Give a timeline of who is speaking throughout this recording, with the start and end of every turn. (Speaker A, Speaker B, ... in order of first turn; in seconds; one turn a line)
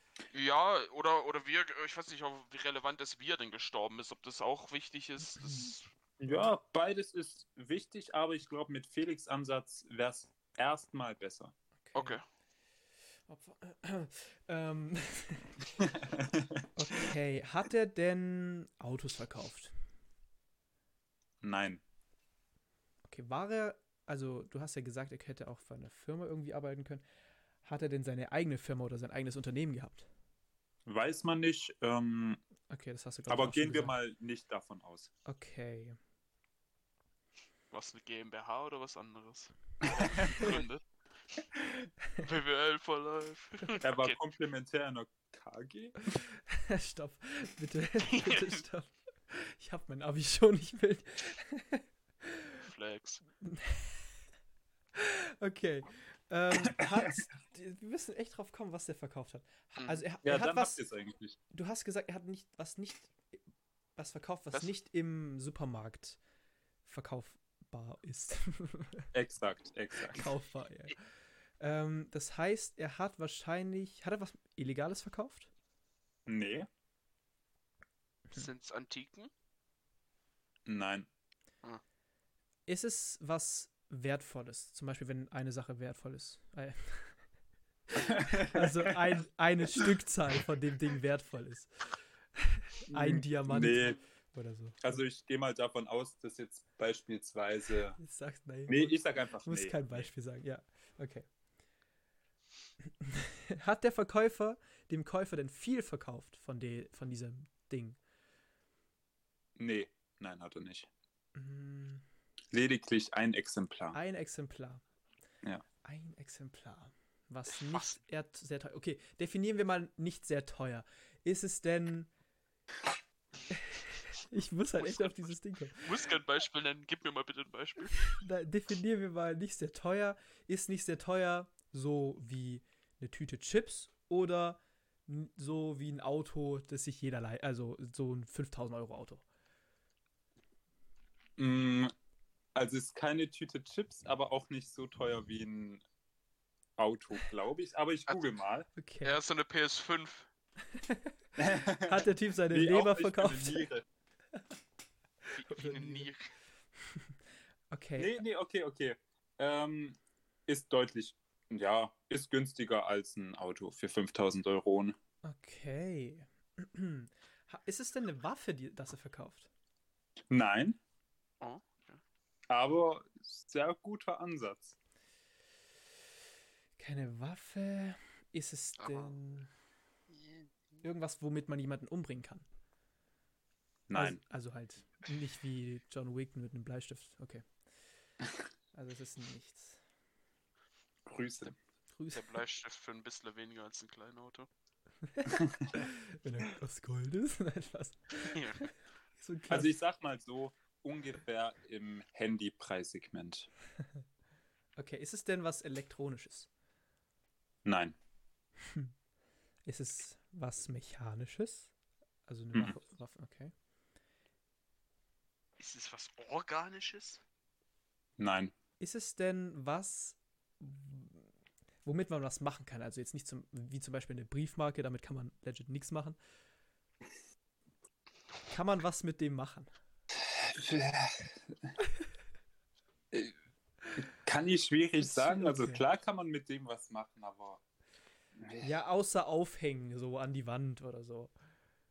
Speaker A: 0.3-5.9
Speaker B: 5.2-5.7
Speaker C: 6.2-11.5
Speaker B: 11.8-12.2
Speaker A: 11.9-12.2
Speaker B: 13.3-15.7
Speaker C: 15.8-16.2
Speaker B: 16.7-19.7
Speaker C: 21.4-21.8
Speaker B: 23.1-27.0
Speaker B: 27.6-30.1
Speaker C: 30.9-32.4
Speaker B: 32.7-33.9
Speaker C: 33.3-35.1
Speaker B: 35.2-36.0
Speaker A: 37.7-40.8
Speaker C: 39.8-40.4
Speaker A: 42.2-44.2
Speaker C: 43.8-46.0
Speaker B: 46.1-52.5
Speaker A: 48.0-48.6
Speaker A: 52.6-53.2
Speaker B: 53.4-54.1
Speaker B: 54.9-60.8
Speaker A: 59.8-60.0
Speaker C: 60.2-61.4
Speaker B: 61.5-63.1
Speaker B: 64.0-66.2
Speaker B: 66.8-69.1
Speaker C: 69.1-70.3
Speaker B: 70.1-71.0
Speaker B: 71.6-75.5
Speaker C: 76.2-76.7
Speaker A: 78.3-79.3
Speaker C: 80.7-81.1
Speaker B: 82.7-87.2
Speaker B: 87.9-95.0
Speaker C: 88.0-89.1
Speaker C: 92.9-94.0
Speaker C: 94.8-98.0
Speaker B: 98.0-101.2
Speaker C: 98.7-100.1
Speaker B: 103.0-108.0
Speaker C: 109.6-110.9
Speaker B: 111.3-112.0
Speaker C: 112.5-114.0
Speaker B: 113.9-114.8
Speaker B: 115.8-122.1
Speaker A: 117.5-118.0
Speaker B: 123.5-125.9
Speaker A: 124.8-128.1
Speaker B: 128.1-139.2
Speaker C: 141.4-141.9
Speaker C: 142.5-145.8
Speaker C: 146.8-148.7
Speaker B: 148.8-149.2
Speaker A: 149.0-150.3
Speaker B: 150.7-153.7
Speaker C: 151.4-153.8
Speaker B: 155.3-156.1
Speaker A: 155.4-156.3
Speaker B: 156.8-157.2
Speaker B: 157.7-158.2
Speaker C: 158.0-164.9
Speaker B: 165.2-169.5
Speaker C: 170.3-170.8
Speaker A: 171.4-172.0
Speaker C: 172.5-174.8
Speaker B: 176.8-179.5
Speaker A: 178.8-179.1
Speaker A: 180.1-180.5
Speaker B: 180.8-182.4
Speaker C: 183.9-184.2
Speaker B: 183.9-187.4
Speaker B: 188.7-189.8
Speaker C: 191.1-191.6
Speaker B: 191.9-192.4
Speaker A: 192.1-194.5
Speaker B: 195.0-199.7
Speaker A: 198.3-198.6
Speaker C: 199.5-203.5
Speaker B: 204.8-206.5
Speaker C: 207.6-207.9
Speaker B: 208.7-208.9
Speaker B: 209.7-211.7
Speaker B: 212.3-213.5
Speaker A: 215.6-217.2
Speaker C: 218.2-218.5
Speaker B: 218.8-221.3
Speaker B: 221.8-226.2
Speaker B: 228.5-229.7
Speaker C: 230.2-231.6
Speaker C: 234.0-237.6
Speaker B: 235.0-235.8
Speaker C: 238.4-238.7
Speaker B: 238.6-241.3